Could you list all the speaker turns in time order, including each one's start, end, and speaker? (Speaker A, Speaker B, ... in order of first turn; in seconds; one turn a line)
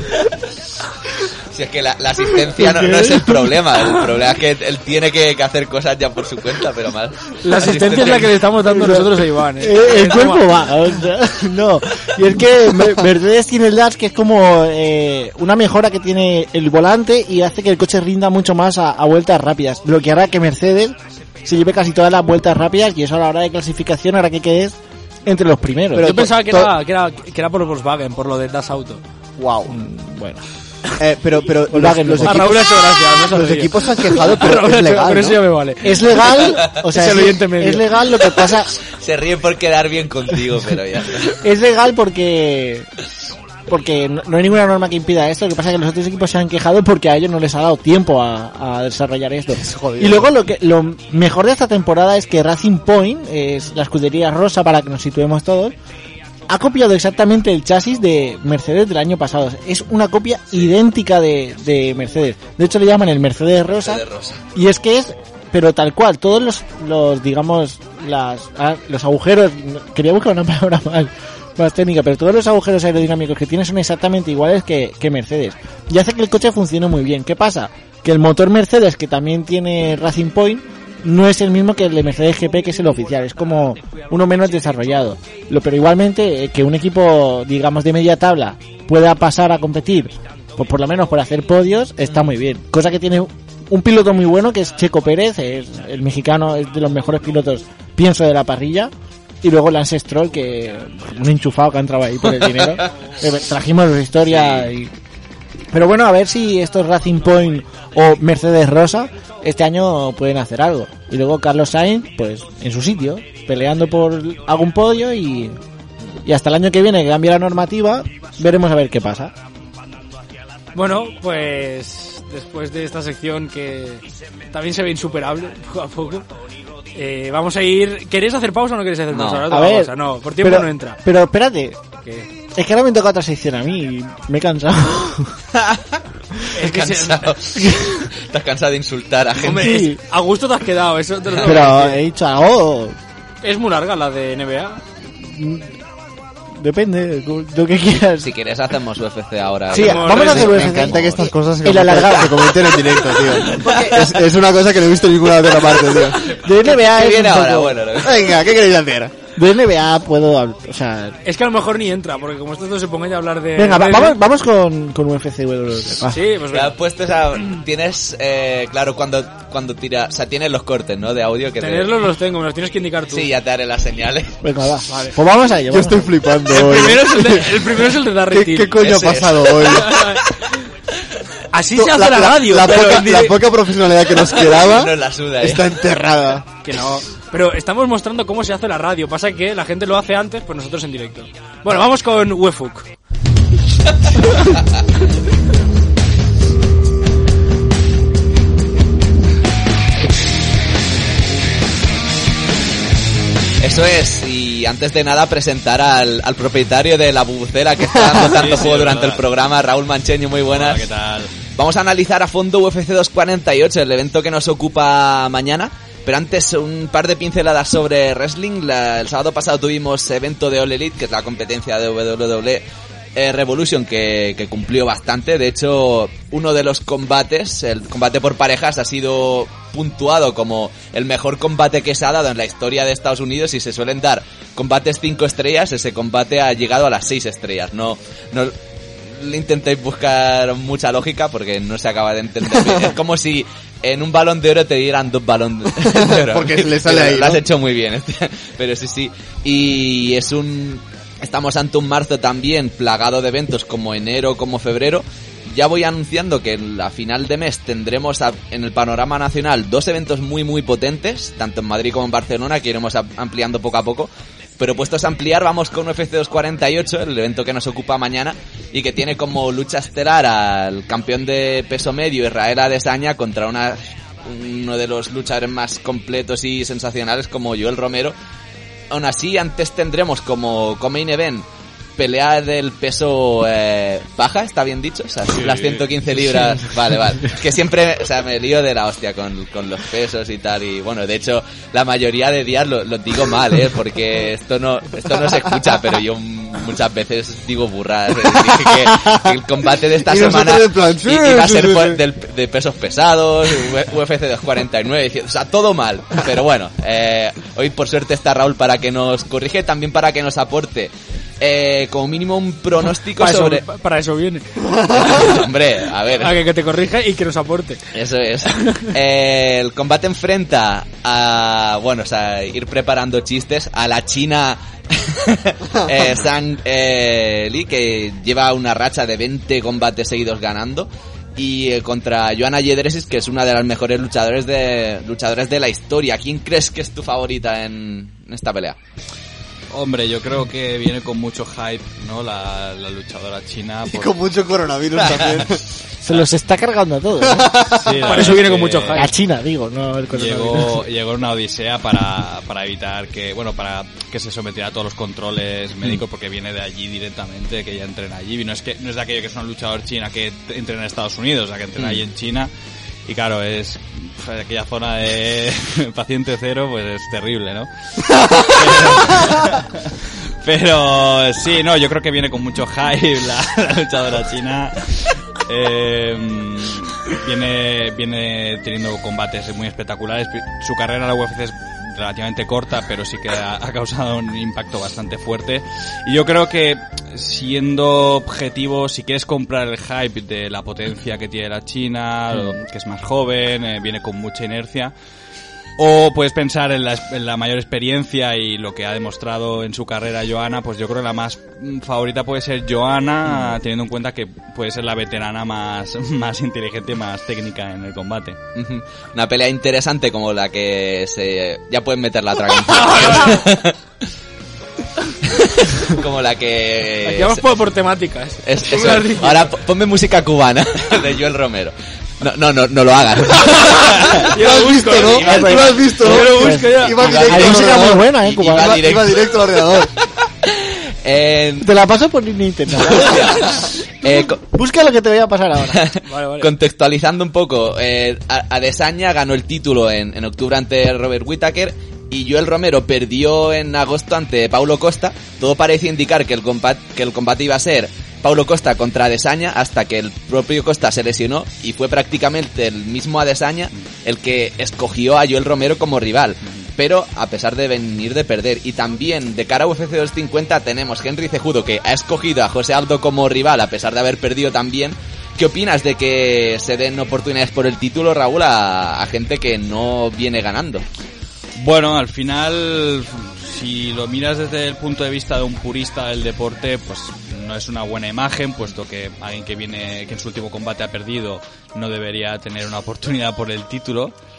Speaker A: 1.5-8.4
Speaker B: 2.5-3.6
Speaker C: 7.4-10.5
Speaker B: 8.6-26.7
Speaker D: 26.0-26.3
Speaker C: 26.0-29.0
Speaker D: 29.4-29.8
Speaker B: 29.7-30.4
Speaker D: 31.0-35.4
Speaker B: 31.7-32.6
Speaker C: 32.2-38.0
Speaker B: 35.8-38.7
Speaker A: 39.0-41.3
Speaker B: 41.3-42.9
Speaker B: 43.7-55.8
Speaker D: 49.6-50.3
Speaker B: 56.5-64.0
Speaker A: 63.8-64.4
Speaker B: 64.5-104.9
Speaker A: 104.3-104.7
Speaker B: 105.7-115.6
Speaker B: 116.2-119.3
Speaker C: 120.8-126.3
Speaker C: 127.0-131.0
Speaker A: 129.1-129.5
Speaker B: 129.5-131.8
Speaker B: 132.5-135.3
Speaker A: 135.6-135.8
Speaker C: 136.5-137.3
Speaker A: 136.6-139.8
Speaker B: 137.6-138.1
Speaker C: 139.4-142.0
Speaker B: 139.4-140.0
Speaker B: 141.4-143.0
Speaker C: 143.4-144.8
Speaker B: 145.2-145.7
Speaker B: 146.5-148.3
Speaker A: 148.2-150.8
Speaker B: 149.7-152.6
Speaker C: 149.7-150.7
Speaker D: 150.1-156.2
Speaker A: 153.7-153.9
Speaker B: 156.3-157.9
Speaker A: 156.6-158.3
Speaker D: 158.0-159.1
Speaker B: 159.4-161.2
Speaker C: 161.2-164.2
Speaker B: 163.6-166.2
Speaker C: 166.1-166.7
Speaker A: 166.5-171.9
Speaker C: 171.6-173.3
Speaker A: 173.1-174.3
Speaker B: 174.4-176.9
Speaker C: 174.9-175.2
Speaker D: 175.7-177.8
Speaker C: 176.5-178.8
Speaker D: 178.3-180.0
Speaker A: 178.8-179.9
Speaker C: 179.7-180.3
Speaker C: 181.5-183.4
Speaker D: 181.7-186.5
Speaker A: 184.2-185.8
Speaker C: 186.6-192.9
Speaker A: 203.6-210.9
Speaker E: 208.2-209.2
Speaker E: 210.5-211.3
Speaker A: 211.5-222.6
Speaker A: 223.2-238.5
Speaker A: 239.1-278.1
Speaker D: 245.8-247.4
Speaker A: 278.9-281.4
Speaker A: 282.0-313.6
Speaker E: 285.3-285.9
Speaker D: 298.9-299.3
Speaker D: 300.0-302.0
Speaker C: 313.2-315.4
Speaker A: 315.0-316.4
Speaker C: 316.2-317.8
Speaker A: 317.9-338.8
Speaker C: 318.5-318.9
Speaker E: 339.7-344.1
Speaker D: 343.9-345.6
Speaker B: 346.1-348.4
Speaker D: 347.3-348.4
Speaker E: 347.7-349.1
Speaker C: 348.1-349.1
Speaker B: 348.9-350.9
Speaker E: 350.1-362.5
Speaker A: 361.8-362.0
Speaker E: 363.1-369.9
Speaker E: 370.4-394.9
Speaker E: 395.8-408.4
Speaker A: 403.2-403.6
Speaker A: 408.6-413.8
Speaker C: 412.7-413.4
Speaker A: 415.3-417.4
Speaker C: 417.1-419.5
Speaker A: 418.4-426.1
Speaker C: 423.5-427.0
Speaker D: 424.4-429.9
Speaker B: 426.2-428.9
Speaker A: 426.9-429.8
Speaker A: 430.4-431.7
Speaker B: 431.6-435.9
Speaker A: 432.8-434.4
Speaker A: 435.7-470.9
Speaker C: 436.1-436.5
Speaker E: 471.6-484.1